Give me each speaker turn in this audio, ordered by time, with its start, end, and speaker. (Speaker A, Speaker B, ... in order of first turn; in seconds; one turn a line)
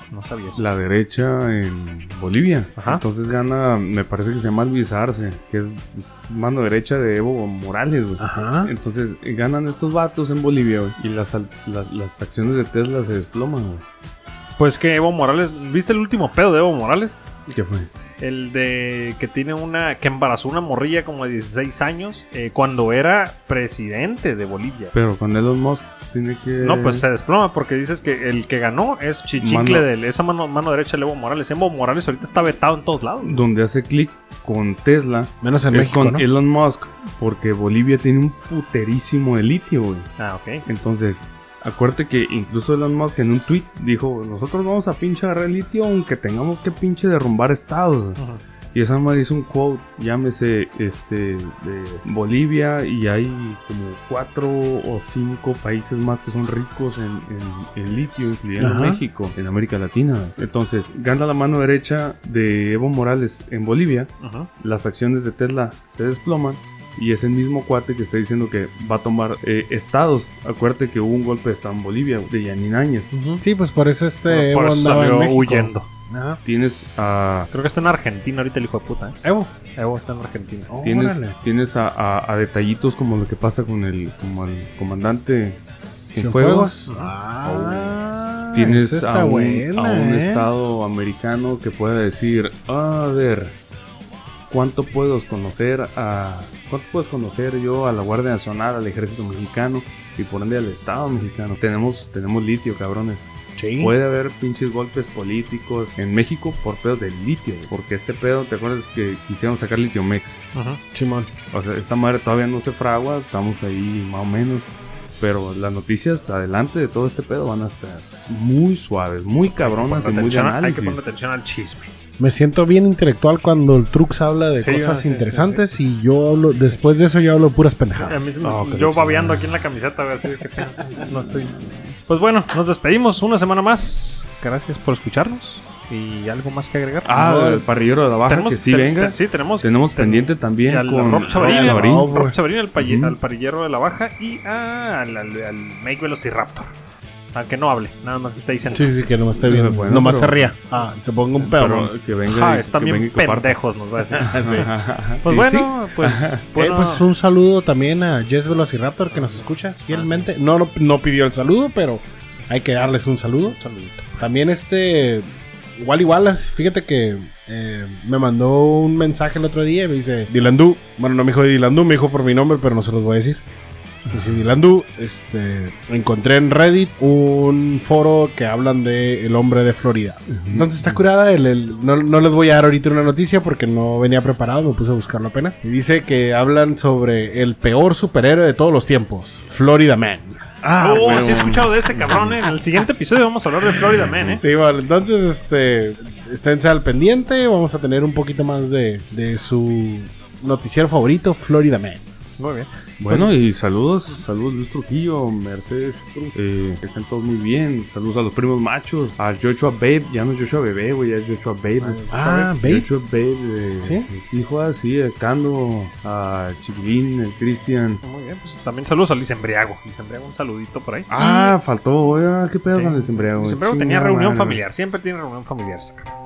Speaker A: 0.1-0.6
Speaker B: 0.6-13.8
Speaker A: 2.8-3.0
Speaker C: 8.2-8.7
Speaker A: 14.6-17.2
Speaker B: 17.5-17.9
Speaker A: 18.2-24.9
Speaker B: 24.9-27.1
Speaker A: 26.6-33.4
Speaker B: 29.4-29.9
Speaker B: 33.2-40.1
Speaker C: 35.4-36.2
Speaker A: 40.2-40.6
Speaker B: 40.6-48.2
Speaker B: 48.7-73.1
Speaker C: 58.6-59.0
Speaker A: 64.2-64.5
Speaker C: 73.1-76.4
Speaker A: 74.3-75.9
Speaker B: 76.4-77.5
Speaker A: 77.5-79.2
Speaker C: 79.2-79.5
Speaker A: 79.8-80.7
Speaker C: 80.7-81.4
Speaker B: 80.8-86.8
Speaker C: 86.1-90.5
Speaker A: 86.9-87.1
Speaker B: 87.4-88.0
Speaker B: 88.5-93.5
Speaker B: 94.5-110.5
Speaker C: 103.6-103.9
Speaker A: 110.5-110.8
Speaker C: 110.9-111.3
Speaker B: 111.5-121.0
Speaker A: 119.5-121.9
Speaker C: 122.2-128.3
Speaker A: 124.6-125.7
Speaker A: 128.1-131.5
Speaker B: 128.4-129.6
Speaker B: 131.1-131.9
Speaker A: 132.1-137.2
Speaker B: 137.1-142.1
Speaker C: 137.1-137.7
Speaker A: 138.3-146.7
Speaker C: 141.4-142.4
Speaker B: 142.8-143.2
Speaker A: 147.3-149.1
Speaker C: 148.7-151.9
Speaker B: 149.4-150.5
Speaker B: 151.4-153.6
Speaker A: 152.3-154.7
Speaker B: 154.1-156.4
Speaker C: 154.2-154.7
Speaker A: 155.2-157.1
Speaker C: 156.6-163.6
Speaker A: 159.1-160.3
Speaker A: 163.5-164.2
Speaker C: 164.2-173.4
Speaker B: 174.1-174.4
Speaker C: 174.1-190.5
Speaker B: 180.3-181.0
Speaker B: 190.6-192.4
Speaker A: 190.7-194.4
Speaker B: 193.7-194.4
Speaker C: 194.4-202.0
Speaker A: 202.4-203.3
Speaker B: 203.0-218.0
Speaker A: 211.8-212.5
Speaker C: 212.1-212.9
Speaker A: 218.0-221.5
Speaker B: 221.1-224.6
Speaker A: 222.7-226.1